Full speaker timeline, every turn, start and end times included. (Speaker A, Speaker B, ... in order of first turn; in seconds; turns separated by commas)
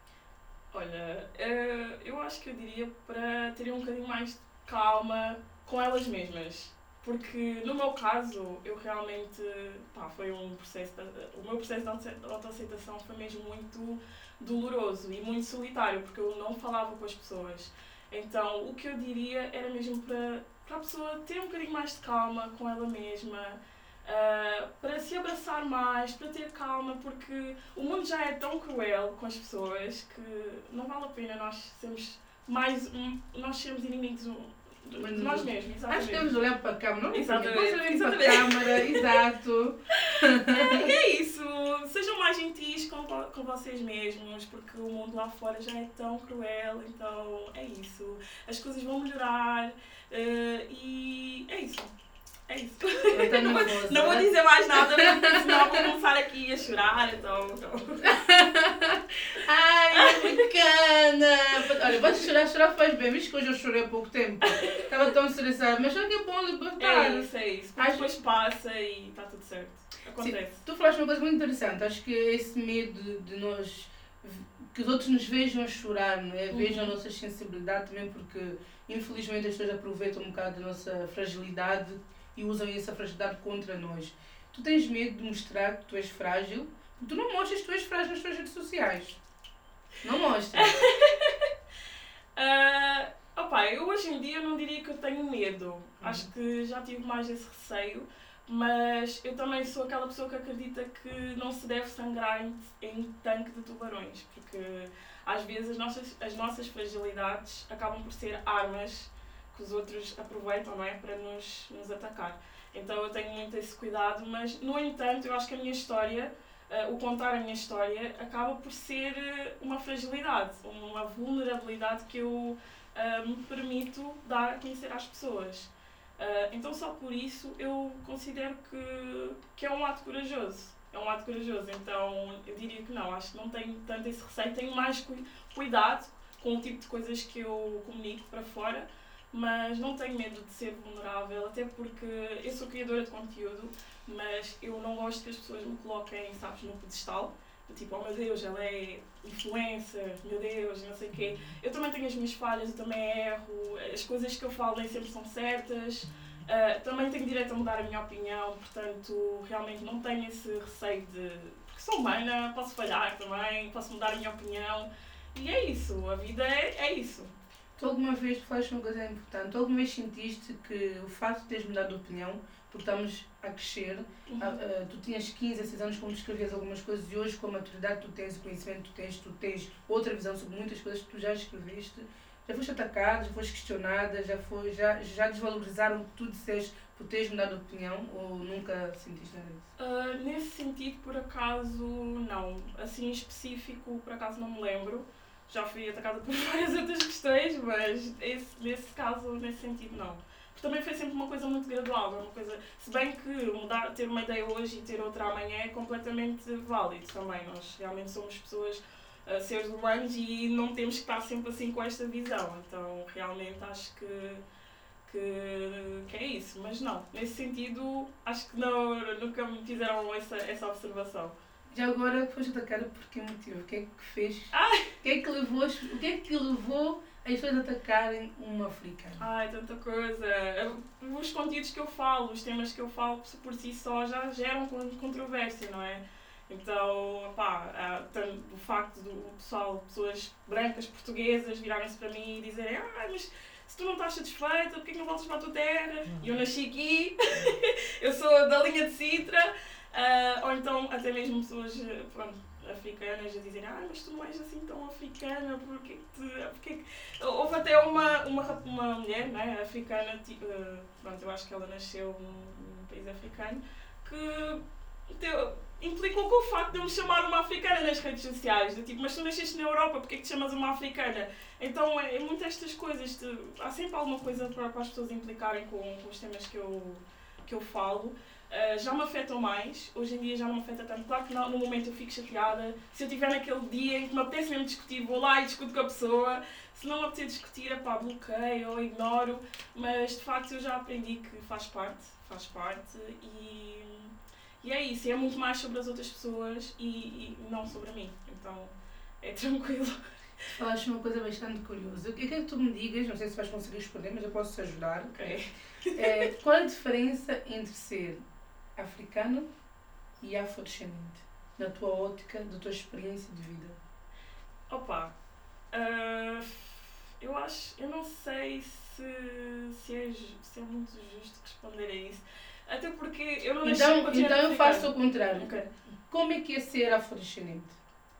Speaker A: 0.7-36.3, Speaker B: 35.0-40.9, Speaker A: 37.1-39.1, Speaker A: 40.0-51.9, Speaker A: 52.5-58.2, Speaker B: 53.1-55.9, Speaker B: 58.0-68.1, Speaker A: 59.9-60.4, Speaker A: 64.4-64.9, Speaker A: 66.8-70.6, Speaker B: 70.2-89.2, Speaker A: 76.5-76.9, Speaker B: 90.0-90.7, Speaker A: 90.5-91.5, Speaker A: 92.3-167.3, Speaker B: 96.0-96.3, Speaker B: 167.8-189.6, Speaker A: 174.3-174.6, Speaker A: 189.8-214.4, Speaker A: 215.0-221.3, Speaker B: 221.7-229.2, Speaker A: 224.5-224.9, Speaker A: 229.2-300.5, Speaker B: 300.5-305.4, Speaker A: 305.1-306.3, Speaker B: 305.9-308.2, Speaker B: 308.8-309.5, Speaker B: 310.2-313.8, Speaker A: 314.7-315.1, Speaker A: 315.7-325.7, Speaker B: 323.6-325.5, Speaker B: 326.1-327.8